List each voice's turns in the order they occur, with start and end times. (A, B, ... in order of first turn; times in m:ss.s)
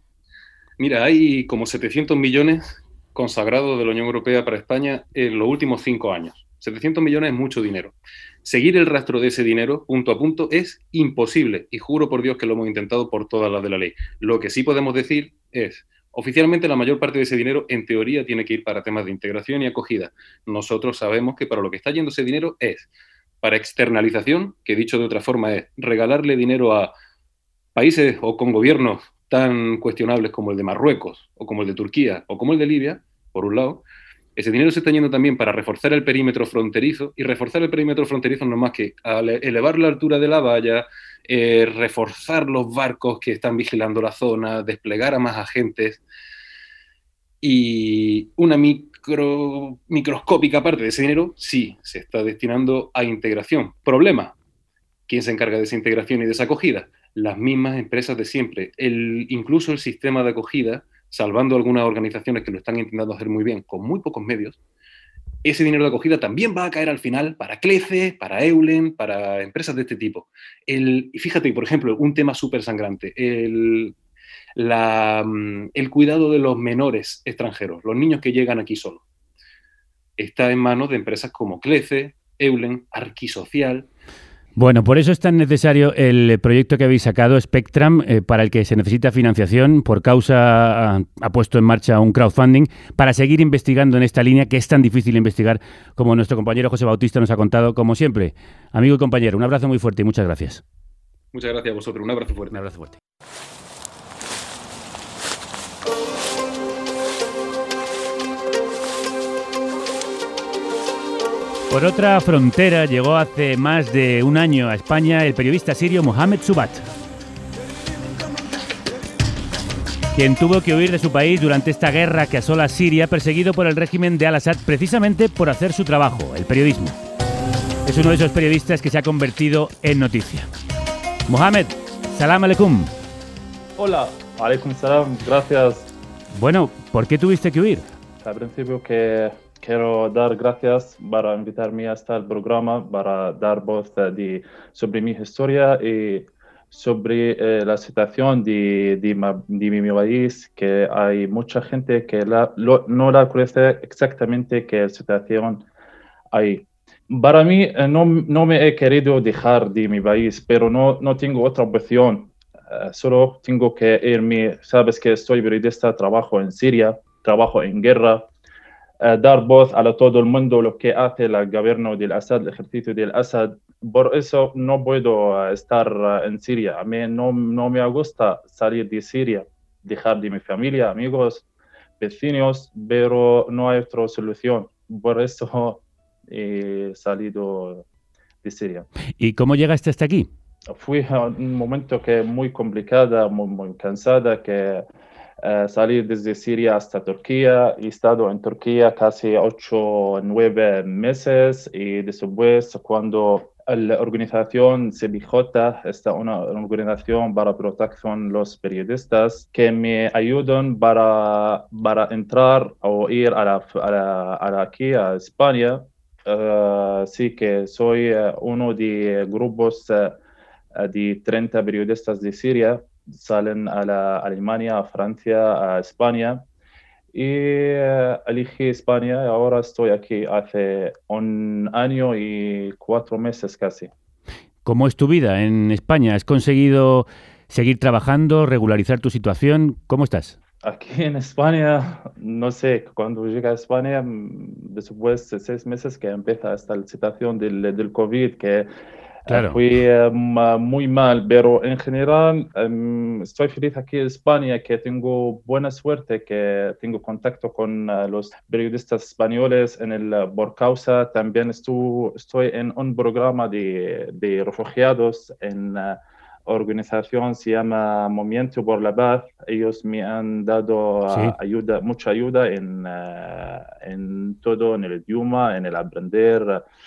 0:00.8-0:22.9 A
0:23.4-0:26.9 A
0:27.7-0:33.8 A
0:34.4-0:46.0 A
0:47.4-0:54.3 A
0:55.1-1:04.6 A
1:05.4-1:13.9 A
1:14.6-1:19.0 A
1:20.2-1:23.9 A
1:24.6-1:40.6 B
1:41.3-1:42.6 A
1:42.5-1:43.0 B
1:51.7-1:56.8 B
2:00.2-2:07.0 B
2:07.8-2:10.5 B
2:11.3-2:12.9 B
2:13.8-2:15.9 C
2:16.3-2:17.8 B
2:18.2-2:35.6 C
2:36.3-2:48.3 C
2:49.0-3:01.4 C
3:02.0-3:07.8 C
3:08.4-3:08.9 C
3:09.2-3:10.3 B
3:10.7-3:14.9 C
3:15.4-3:40.2 C
3:40.8-3:46.4 C
3:47.1-3:53.9 C
3:54.6-4:00.4 B
4:00.6-4:08.7 C
4:09.3-4:36.6 C
4:09.3-4:09.6 B
4:31.1-4:31.3 B